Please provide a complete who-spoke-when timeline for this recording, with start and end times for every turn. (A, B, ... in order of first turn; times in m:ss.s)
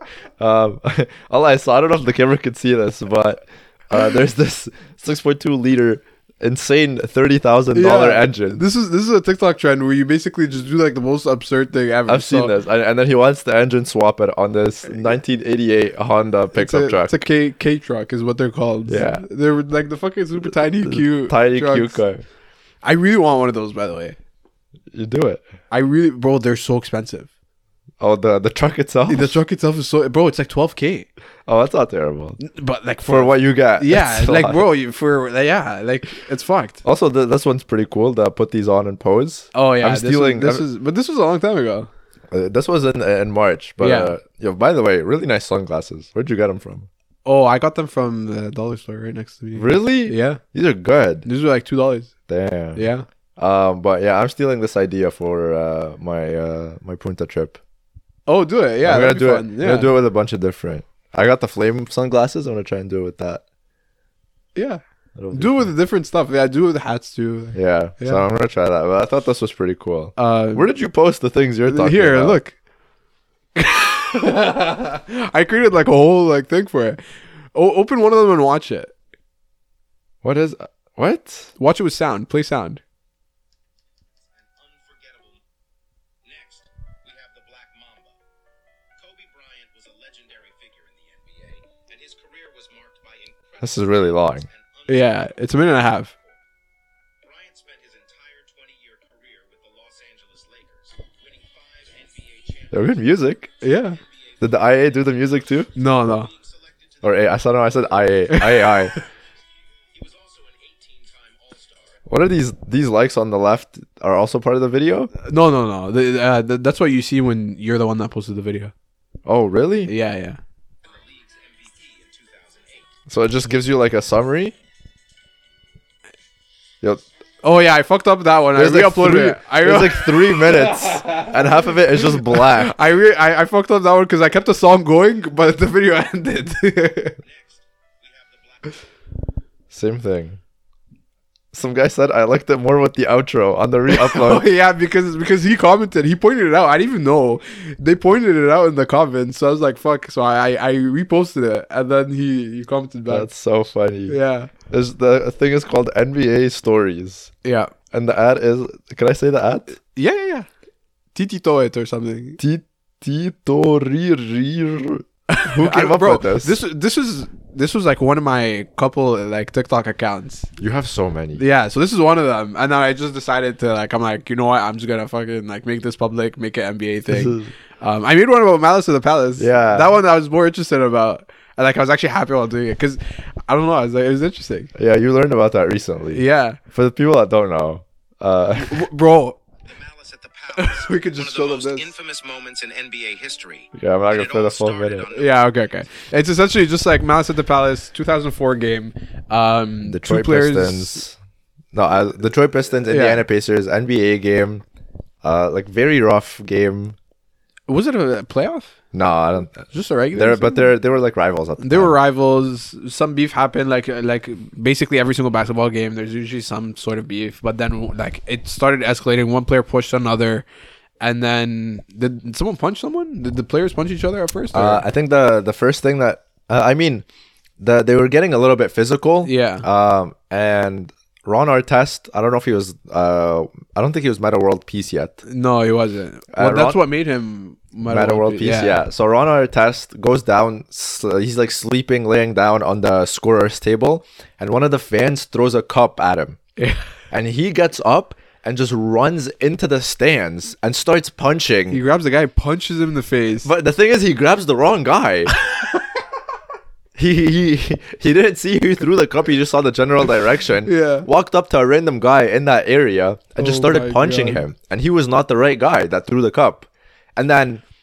0:00.4-0:08.6 A
0:07.7-0:12.5 B
0:12.1-0:17.1 A
0:16.5-0:22.0 B
0:18.9-0:19.2 A
0:20.5-0:22.2 A
0:22.8-0:24.2 B
0:24.9-0:25.4 A
0:25.7-0:27.3 B
0:28.0-0:29.4 A
0:29.1-0:31.1 B
0:31.4-0:32.4 A
0:32.4-0:36.8 B
0:33.1-0:34.6 A
0:36.8-0:40.6 A
0:39.5-0:41.9 B
0:42.3-0:46.9 A
0:43.8-0:44.1 B
0:47.2-0:50.4 B
0:49.5-0:51.2 A
0:51.2-0:52.1 B
0:52.3-0:57.6 A
0:52.7-0:53.0 B
0:58.3-0:59.9 B
0:58.8-1:03.4 A
1:04.5-1:04.8 B
1:05.2-1:05.7 A
1:05.3-1:08.2 B
1:07.5-1:12.4 A
1:10.2-1:10.7 B
1:11.6-1:12.5 B
1:13.5-1:17.0 B
1:17.5-1:18.9 B
1:20.2-1:21.5 A
1:21.6-1:22.8 B
1:24.4-1:25.4 C
1:26.2-1:28.2 C
1:29.0-1:36.4 C
1:33.6-1:34.4 A
1:34.9-1:36.1 B
1:37.2-1:47.8 C
1:42.7-1:43.5 A
1:43.6-1:44.0 B
1:44.4-1:45.7 A
1:45.8-1:46.3 B
1:47.0-1:48.9 A
1:48.3-1:49.0 B
1:49.7-1:52.0 C
1:52.1-1:55.1 A
1:55.2-1:58.7 B
1:59.2-1:59.9 A
1:59.9-2:00.4 B
2:00.8-2:02.9 C
2:03.1-2:04.5 A
2:07.4-2:11.4 B
2:08.5-2:12.7 A
2:12.0-2:17.2 B
2:17.2-2:18.9 C
2:19.7-2:20.4 A
2:21.5-2:24.5 A
2:23.9-2:33.3 B
2:33.1-2:37.3 A
2:34.1-2:34.5 B
2:37.4-2:37.7 B
2:37.9-2:39.7 A
2:39.8-2:40.5 B
2:41.1-2:42.4 B
2:42.4-2:46.6 A
2:45.3-2:50.5 B
2:50.6-2:51.4 A
2:51.4-3:04.7 B
2:57.1-2:57.5 A
2:59.4-2:59.9 A
3:04.7-3:08.9 A
3:06.1-3:06.6 B
3:08.5-3:09.4 B
3:09.6-3:15.6 C
3:10.6-3:11.9 B
3:13.7-3:15.1 A
3:15.1-3:21.0 B
3:19.8-3:21.2 A
3:21.7-3:24.6 A
3:22.9-3:23.2 B
3:25.2-3:27.0 A
3:27.7-3:28.7 B
3:28.9-3:31.9 A
3:29.6-3:30.7 B
3:31.6-3:40.4 B
3:41.0-3:44.8 B
3:44.5-3:47.0 A
3:47.6-3:55.2 A
3:49.2-3:49.6 B
3:55.2-3:58.8 B
3:56.3-3:56.8 A
3:57.8-4:06.4 A
4:06.6-4:06.9 B
4:07.1-4:11.8 A
4:11.7-4:13.5 B
4:13.4-4:15.3 A
4:17.0-4:27.6 A
4:20.6-4:21.1 B
4:23.4-4:24.4 B